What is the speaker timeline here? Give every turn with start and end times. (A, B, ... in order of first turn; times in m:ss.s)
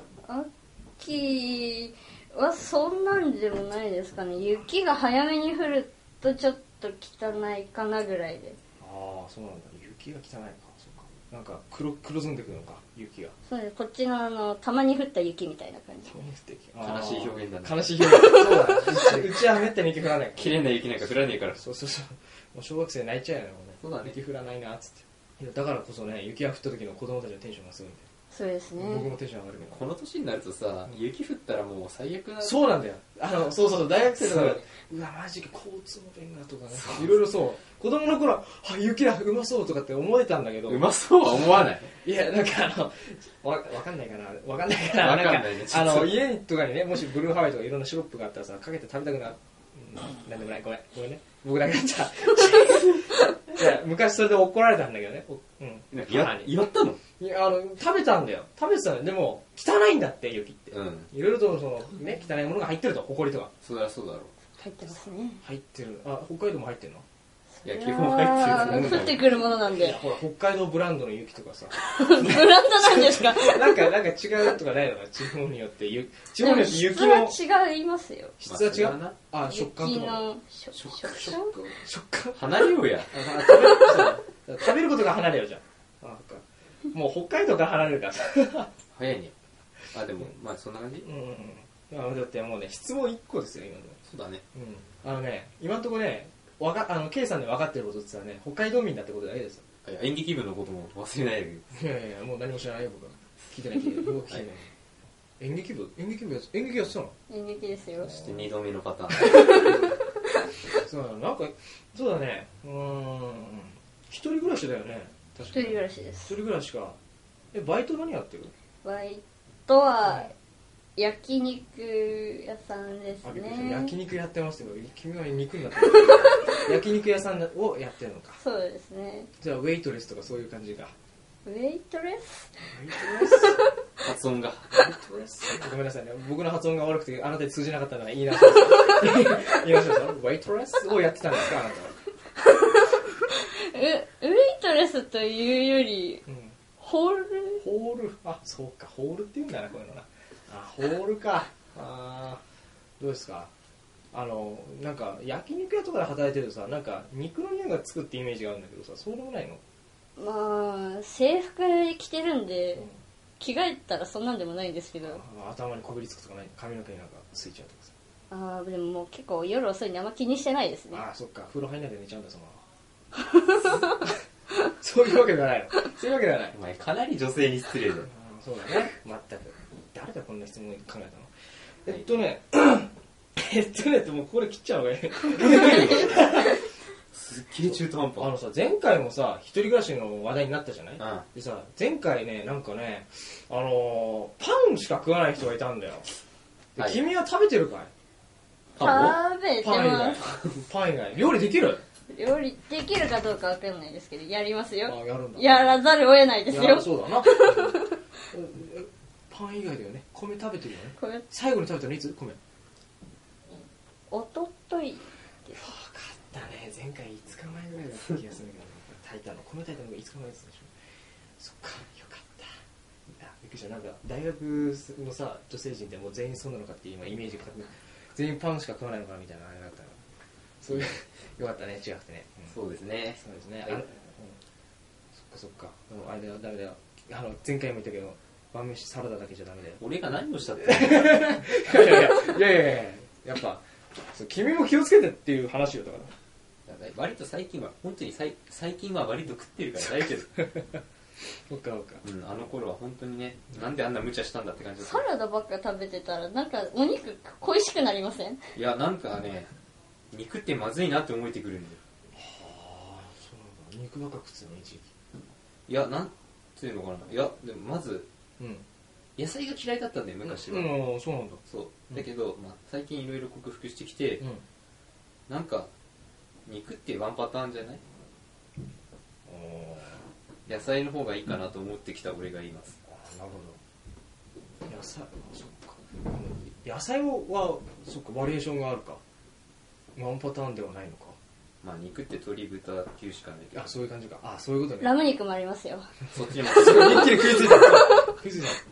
0:00.2-0:08.6 A
0:08.8-0:13.3 B
0:13.4-0:16.2 A
0:16.1-0:28.0 B
0:16.8-0:19.3 C
0:20.3-0:21.6 C
0:23.8-0:24.2 C
0:28.3-0:29.1 A
0:28.8-0:29.8 B
0:29.7-0:32.7 C
0:32.4-0:40.9 B
0:34.1-0:34.7 C
0:36.7-0:37.2 C
0:40.7-0:41.9 C
0:41.4-0:56.5 B
0:44.9-0:46.2 C
0:55.9-0:57.0 C
0:57.2-1:03.5 B
1:00.7-1:01.1 C
1:03.6-1:04.3 C
1:04.6-1:05.4 A
1:05.4-1:07.0 B
1:07.6-1:10.0 A
1:07.6-1:09.3 C
1:08.4-1:17.4 B
1:11.8-1:13.9 A
1:16.4-1:18.3 A
1:18.4-1:28.7 B
1:18.4-1:19.2 C
1:19.4-1:21.5 A
1:22.3-1:23.3 C
1:28.9-1:29.3 C
1:29.9-1:31.1 C
1:31.0-1:34.0 B
1:34.0-1:34.4 C
1:34.5-1:39.6 B
1:39.8-1:41.6 C
1:41.7-1:44.7 B
1:45.4-1:47.1 B
1:47.3-1:48.1 A
1:48.0-1:49.7 C
1:48.0-1:48.3 B
1:50.7-1:57.0 B
1:55.5-1:56.3 A
1:57.5-1:58.5 B
1:58.8-2:00.3 A
2:00.0-2:00.3 B
2:01.0-2:03.9 A
2:03.2-2:08.4 B
2:08.4-2:09.3 A
2:09.4-2:10.9 B
2:11.4-2:13.7 A
2:12.7-2:13.6 B
2:14.0-2:14.8 C
2:14.7-2:21.9 B
2:23.3-2:26.2 A
2:26.3-2:26.6 B
2:26.8-2:27.6 A
2:27.6-2:32.4 B
2:33.0-2:33.5 B
2:34.1-2:39.6 B
2:40.2-2:45.2 A
2:45.0-2:47.9 B
2:48.3-2:51.0 A
2:50.9-2:52.6 B
2:53.7-2:54.1 B
2:54.6-2:56.5 B
2:56.5-2:58.1 C
2:58.0-3:01.3 B
3:01.8-3:06.6 B
3:05.4-3:06.2 C
3:07.1-3:08.3 C
3:08.2-3:16.1 B
3:11.0-3:11.3 C
3:16.8-3:17.9 B
3:16.8-3:17.0 C
3:18.8-3:19.2 C
3:18.8-3:20.2 A
3:19.6-3:21.8 B
3:22.1-3:28.0 A
3:24.8-3:25.7 B
3:26.5-3:32.4 B
3:31.0-3:31.2 A
3:34.1-3:35.6 A
3:35.5-3:40.7 B
3:41.4-3:42.5 B
3:43.2-3:50.0 B
3:50.6-3:52.5 B
3:52.5-3:53.8 C
3:53.2-3:54.4 B
3:55.1-3:59.8 B
3:59.8-4:01.3 C
4:00.6-4:06.1 B
4:06.7-4:10.4 C
4:10.4-4:10.8 B
4:11.5-4:12.0 B
4:12.0-4:15.0 C
4:14.8-4:18.4 A
4:18.5-4:19.5 C
4:20.1-4:21.8 C
4:22.1-4:24.9 B
4:25.7-4:28.1 C
4:28.4-4:28.6 B
4:29.2-4:30.8 C
4:30.2-4:32.1 B
4:31.5-4:34.2 C
4:35.3-4:35.7 C
4:36.5-4:37.8 C
4:39.2-4:40.0 B
4:40.5-4:42.8 C
4:42.8-4:43.6 B
4:44.6-4:49.0 B
4:50.0-4:51.2 B
4:51.6-4:53.7 C
4:53.5-4:55.0 B
4:54.8-4:55.8 A
4:56.1-4:57.6 C
4:56.4-4:58.6 B